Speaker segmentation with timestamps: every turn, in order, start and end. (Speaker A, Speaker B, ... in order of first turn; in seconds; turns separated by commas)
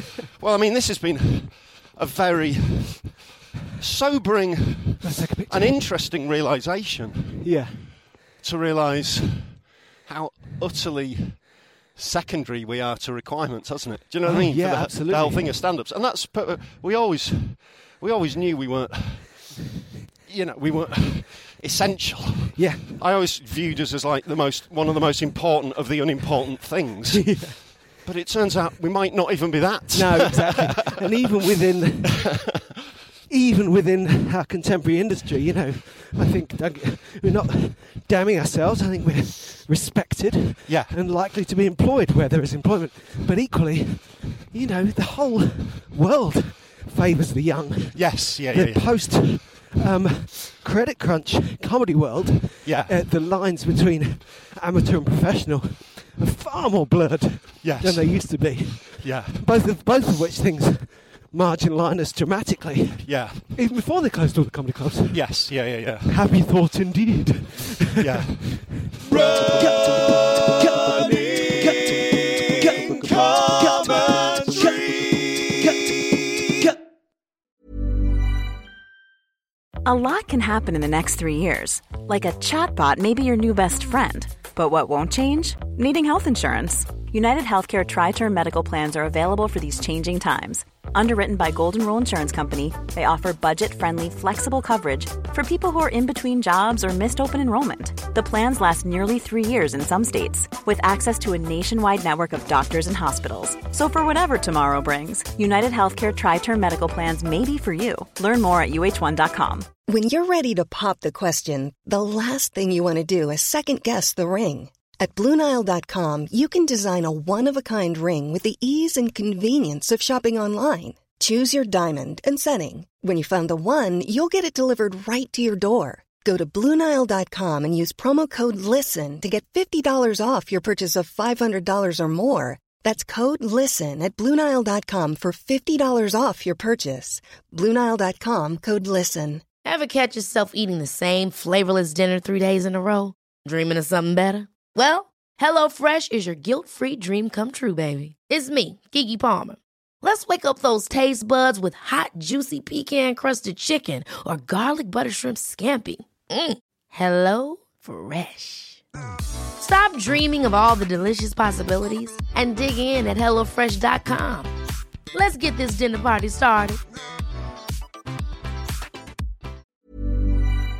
Speaker A: 0.3-3.2, Speaker A: 3.8-7.4, Speaker B: 5.0-5.8, Speaker B: 7.4-8.0, Speaker A: 8.4-19.6, Speaker B: 14.2-15.6, Speaker A: 20.3-30.9, Speaker B: 22.6-22.9, Speaker B: 27.2-27.6, Speaker B: 29.9-32.4, Speaker B: 33.3-76.8, Speaker A: 40.7-40.9, Speaker A: 47.9-48.9, Speaker A: 52.6-53.0, Speaker A: 57.6-59.4, Speaker A: 63.0-63.5, Speaker A: 65.1-66.2, Speaker A: 68.0-69.5, Speaker A: 73.0-74.7, Speaker C: 79.8-109.7, Speaker D: 109.9-139.4, Speaker E: 139.6-158.8, Speaker E: 159.6-164.5, Speaker E: 165.1-166.8